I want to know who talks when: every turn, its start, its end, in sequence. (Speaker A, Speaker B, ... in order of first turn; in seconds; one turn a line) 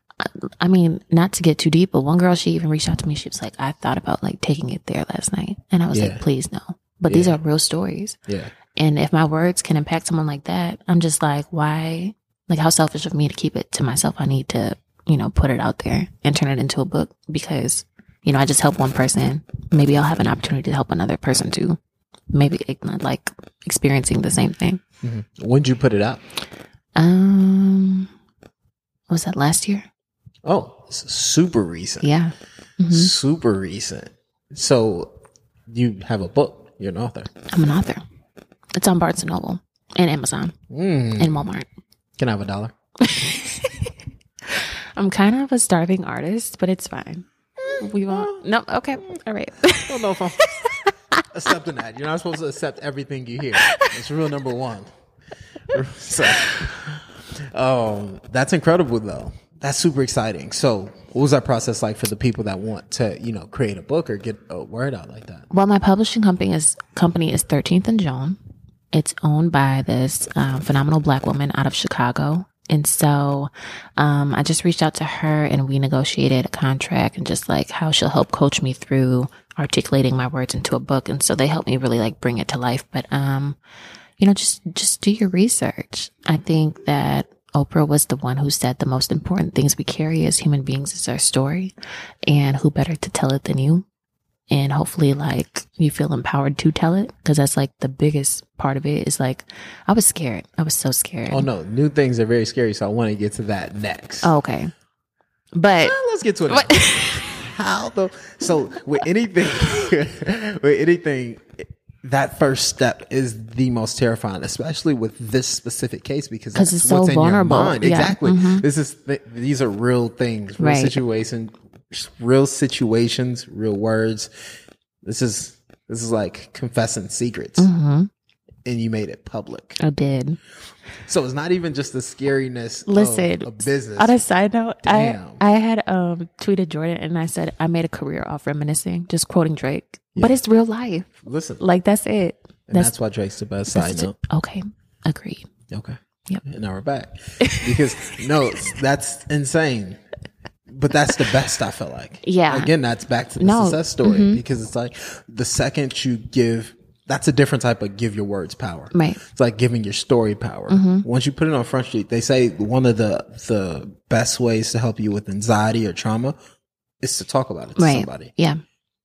Speaker A: 0.2-8.2
Speaker B: 5.9-6.2
Speaker B: 7.1-7.4
Speaker B: 8.3-8.5
Speaker A: 8.7-21.8
Speaker A: 22.3-24.8
Speaker B: 25.0-26.2
Speaker A: 27.0-28.1
Speaker A: 29.1-29.9
Speaker B: 30.4-32.1
Speaker A: 32.0-33.1
Speaker B: 32.9-35.1
Speaker B: 35.7-37.3
Speaker A: 37.5-38.0
Speaker A: 38.8-40.5
Speaker B: 40.7-41.4
Speaker A: 41.2-41.7
Speaker B: 42.2-42.7
Speaker A: 43.0-43.9
Speaker A: 44.5-47.3
Speaker B: 47.6-48.4
Speaker A: 47.8-51.2
Speaker B: 49.9-50.8
Speaker B: 51.3-54.9
Speaker A: 53.5-53.9
Speaker B: 55.7-65.5
Speaker A: 65.5-68.4
Speaker A: 68.9-83.6
Speaker A: 84.2-91.7
Speaker A: 92.3-93.8
Speaker A: 94.5-101.5
Speaker B: 101.3-104.3
Speaker A: 104.2-104.7
Speaker A: 105.5-106.0
Speaker B: 105.8-124.3
Speaker A: 106.5-107.4
Speaker A: 116.5-118.7
Speaker A: 120.6-121.0
Speaker B: 125.0-127.7
Speaker A: 127.6-128.1
Speaker B: 128.7-129.8
Speaker A: 129.8-130.4
Speaker B: 131.1-134.2
Speaker A: 132.9-142.9
Speaker B: 134.8-135.4
Speaker B: 141.2-141.6
Speaker B: 142.7-144.2
Speaker A: 143.7-145.5
Speaker B: 145.7-150.0
Speaker A: 147.4-148.2
Speaker B: 150.7-166.4
Speaker A: 152.2-152.7
Speaker A: 153.4-154.4
Speaker A: 158.9-159.2
Speaker A: 160.7-161.1
Speaker B: 167.0-168.3
Speaker A: 167.8-168.6